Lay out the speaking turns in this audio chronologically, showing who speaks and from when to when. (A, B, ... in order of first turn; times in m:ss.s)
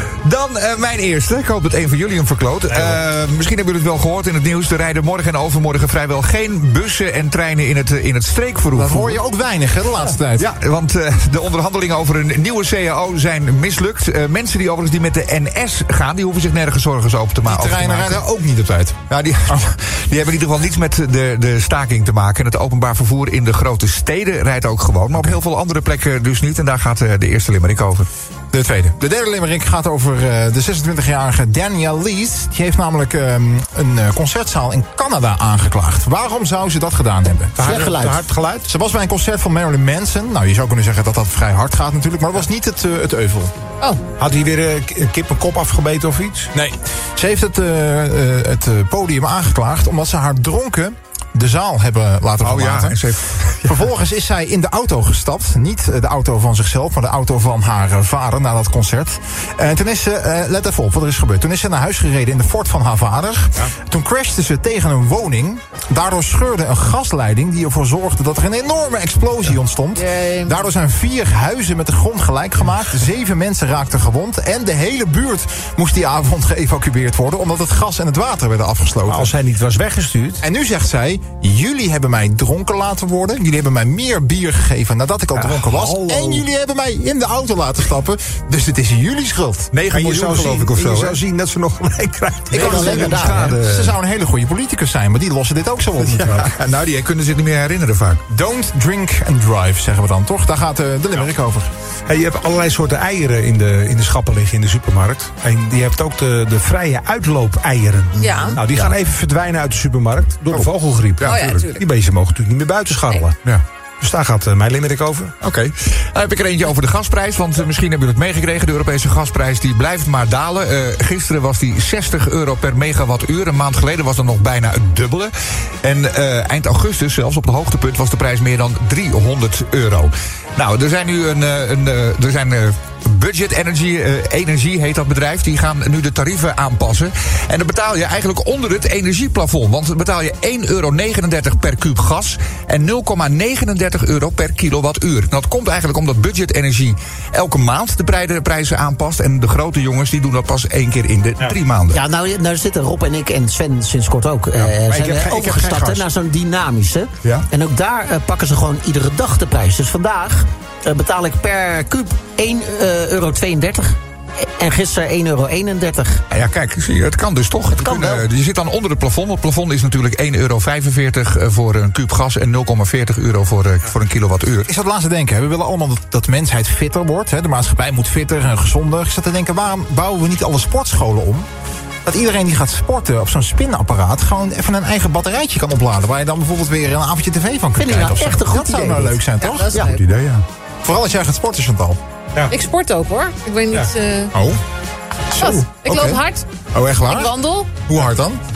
0:00.2-0:09.2 A
0:02.7-0:03.0 B
0:08.7-0:10.5 C
0:10.4-0:18.2 A
0:17.4-0:19.6 C
0:19.1-0:28.1 A
0:28.5-0:37.6 C
0:37.6-0:38.7 B
0:37.6-0:38.2 D
0:38.6-0:43.5 C
0:44.2-0:46.5 B
0:46.5-0:53.0 C
0:52.4-0:53.8 A
0:53.6-1:19.3 C
1:09.9-1:10.6 E
1:19.0-1:20.4 B
1:20.4-1:29.7 C
1:25.4-1:26.4 B
1:29.7-1:31.2 A
1:29.9-1:33.6 B
1:32.5-1:36.5 C
1:32.5-1:33.5 D
1:32.5-1:34.0 A
1:36.0-1:38.2 A
1:38.3-1:41.7 C
1:42.1-1:53.4 B
1:48.2-1:48.6 E
1:50.5-1:51.6 A
1:51.2-1:51.8 E
1:54.0-1:55.3 B
1:55.4-2:32.0 A
2:31.9-2:46.2 D
2:34.6-2:36.1 B
2:46.3-2:54.7 A
2:47.7-2:48.2 D
2:54.6-3:01.5 C
3:02.0-3:09.7 C
3:07.8-3:09.2 D
3:09.4-3:10.0 E
3:09.8-3:10.4 A
3:10.8-3:12.0 C
3:12.5-3:14.3 E
3:14.3-3:14.6 C
3:15.3-3:16.2 C
3:15.4-3:16.4 E
3:16.7-3:18.4 C
3:17.0-3:17.7 E